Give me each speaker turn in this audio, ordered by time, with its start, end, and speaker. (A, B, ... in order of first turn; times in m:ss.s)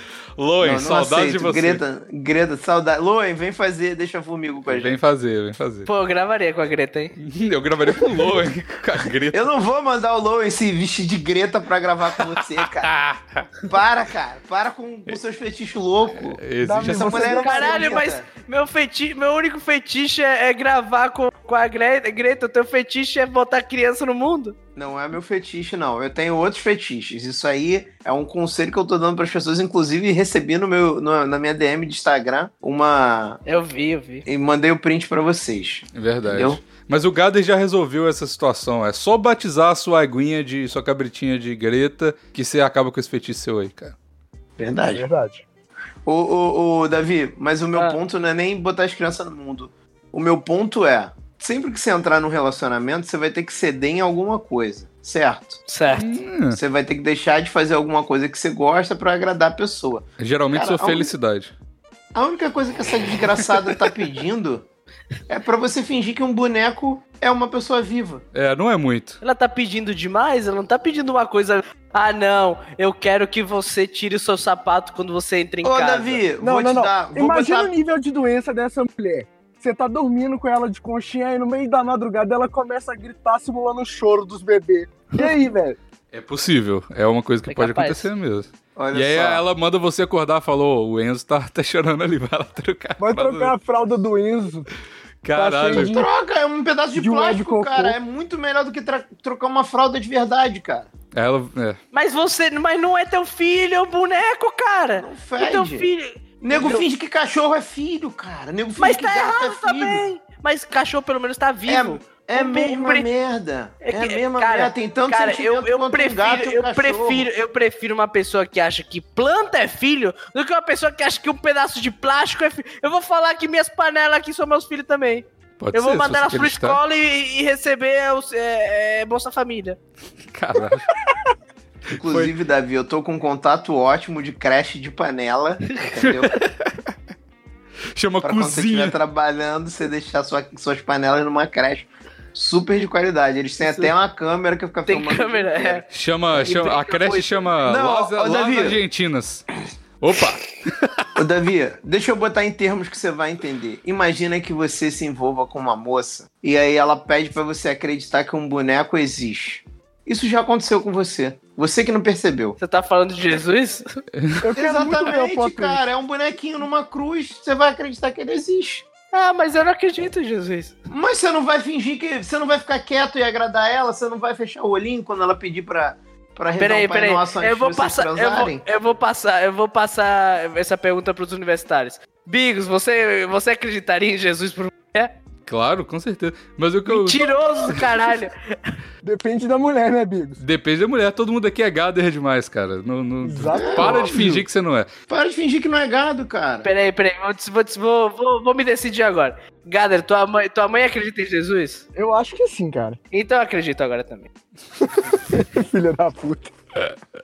0:00.4-0:01.8 A
0:00.6-0:05.0 B
0:04.7-0:05.9 A
0:05.8-0:07.1 C
0:07.2-0:09.5 A
0:09.3-0:12.9 B
0:12.8-0:13.4 A
0:13.6-0:18.3 B
0:16.2-0:17.3 A
0:16.6-0:18.1 D
0:17.4-0:24.6 C
0:24.8-0:33.4 B
0:33.4-0:34.2 C
0:34.2-0:36.6 B
0:35.9-0:43.9 A
0:44.6-0:45.0 B
0:44.9-0:45.4 D
0:46.0-0:55.6 B
0:55.7-0:56.2 C
0:55.9-0:56.6 A
0:56.5-1:01.1 B
1:00.2-1:01.5 A
1:02.1-1:04.6 B
1:05.3-1:08.2 B
1:08.3-1:09.2 A
1:09.2-1:16.2 C
1:15.6-1:17.7 B
1:16.4-1:25.8 D
1:26.1-1:33.5 A
1:27.5-1:28.1 C
1:28.7-1:29.4 B
1:33.0-1:34.7 D
1:35.2-1:35.9 A
1:35.3-1:36.1 D
1:35.7-1:40.9 B
1:36.9-1:38.0 D
1:41.1-1:41.8 A
1:41.9-1:46.9 C
1:45.0-1:45.9 B
1:46.4-1:50.0 B
1:48.8-1:53.1 C
1:51.7-1:57.3 B
1:53.8-2:09.8 C
2:05.6-2:06.8 A
2:10.3-2:10.9 A
2:11.9-2:12.3 A
2:11.9-2:16.4 B
2:16.0-2:16.9 A
2:17.9-2:19.0 A
2:18.2-2:25.8 B
2:23.6-2:23.9 C
2:24.8-2:27.5 C
2:25.9-2:29.4 A
2:27.6-2:28.8 B
2:30.0-2:31.1 A
2:31.2-2:42.6 B
2:42.6-2:44.0 C
2:44.1-2:44.5 A
2:44.4-2:45.8 D
2:44.5-2:48.9 B
2:49.1-2:50.7 C
2:50.9-2:58.6 B
2:56.6-3:05.1 C
3:05.4-3:07.8 A
3:06.8-3:08.8 C
3:09.0-3:10.4 D
3:10.4-3:14.9 A
3:13.2-3:14.3 D
3:13.5-3:14.4 B
3:15.1-3:16.7 B
3:16.6-3:21.8 C
3:22.0-3:23.0 D
3:23.1-3:24.3 C
3:24.8-3:26.5 D